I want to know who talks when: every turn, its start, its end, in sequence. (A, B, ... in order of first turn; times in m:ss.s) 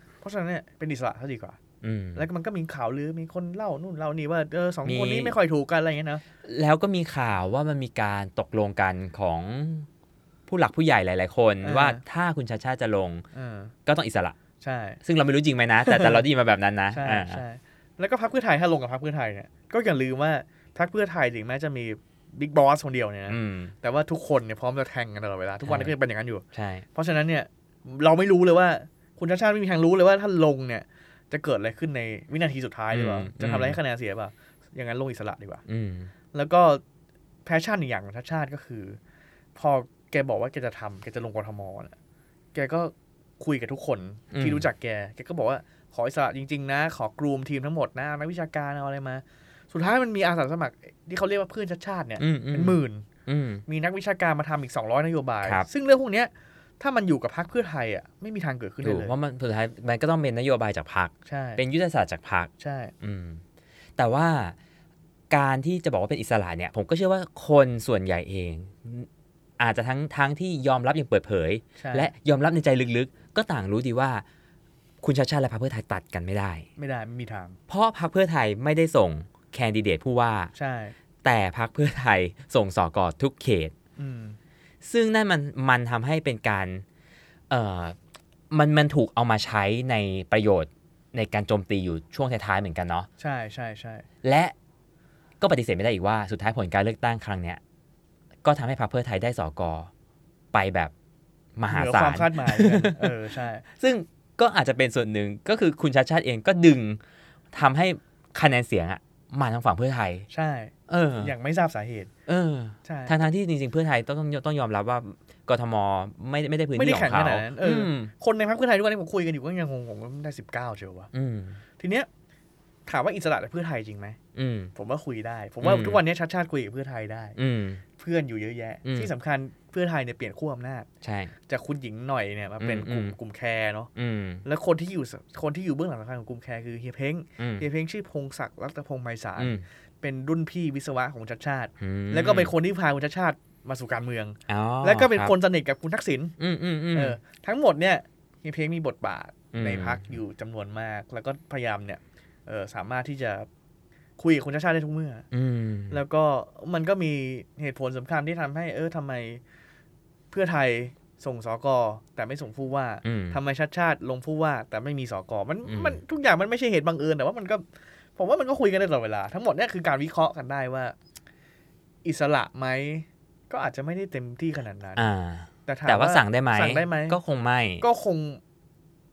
0:00.2-0:01.6 A
0:01.8-0:02.3 B
0:02.1-0:06.2 A
0:04.8-0:05.4 B
0:06.4-0:09.9 B
0:10.5-0:13.2 B
0:11.6-0:12.0 A
0:13.3-0:13.7 A
0:13.9-0:14.4 B
0:14.6-0:15.0 A
0:15.0-0:17.4 B
0:15.8-0:16.2 A
0:16.9-0:35.6 A
0:23.3-0:23.7 B
0:25.6-0:25.9 B
0:26.5-0:26.8 B
0:32.9-0:33.8 B
0:35.7-0:36.1 B
0:36.3-0:36.8 A
0:37.5-0:39.0 A
0:39.5-0:41.9 A
0:42.5-0:53.1 A
0:44.3-0:44.6 B
0:52.2-0:53.6 B
0:53.6-0:59.1 A
0:55.4-0:55.7 B
0:58.8-1:03.4 B
1:01.2-1:01.6 A
1:02.6-1:02.9 A
1:04.0-1:04.6 B
1:05.3-1:09.1 B
1:09.6-1:14.2 B
1:11.8-1:12.1 A
1:15.0-1:16.7 B
1:16.8-1:17.6 A
1:17.7-1:20.5 B
1:20.5-1:21.0 A
1:21.2-1:23.7 B
1:24.0-1:24.4 A
1:24.8-1:26.8 B
1:27.5-1:28.0 B
1:28.5-1:33.1 B
1:33.2-1:34.0 A
1:34.2-1:34.5 B
1:35.4-1:37.6 B
1:38.4-1:39.9 B
1:40.5-1:40.9 B
1:41.6-1:47.0 B
1:41.7-1:43.6 A
1:47.5-1:50.3 B
1:50.3-1:52.1 A
1:50.9-1:51.3 B
1:52.3-1:58.1 B
1:52.8-1:53.2 A
1:56.8-2:01.1 A
2:01.1-2:01.6 B
2:01.8-2:02.1 A
2:02.9-2:04.2 A
2:04.4-2:04.7 B
2:04.8-2:07.4 A
2:05.6-2:06.0 B
2:07.4-2:07.8 B
2:08.0-2:10.9 A
2:08.8-2:09.1 B
2:11.0-2:11.3 B
2:11.5-2:13.9 A
2:12.6-2:13.2 B
2:14.0-2:14.4 B
2:14.4-2:26.4 A
2:17.4-2:17.6 B
2:19.4-2:19.6 B
2:21.8-2:22.5 B
2:24.5-2:25.3 B
2:26.4-2:27.2 B
2:26.9-2:33.5 A
2:29.5-2:30.2 B
2:34.2-2:35.2 A
2:35.3-2:36.0 B
2:35.9-2:39.4 A
2:40.3-2:47.6 A
2:43.0-2:43.4 B
2:45.6-2:46.0 B
2:48.2-2:50.9 A
2:52.0-2:55.0 A
2:55.0-2:57.8 B
2:55.6-2:57.2 A
2:57.8-2:58.4 A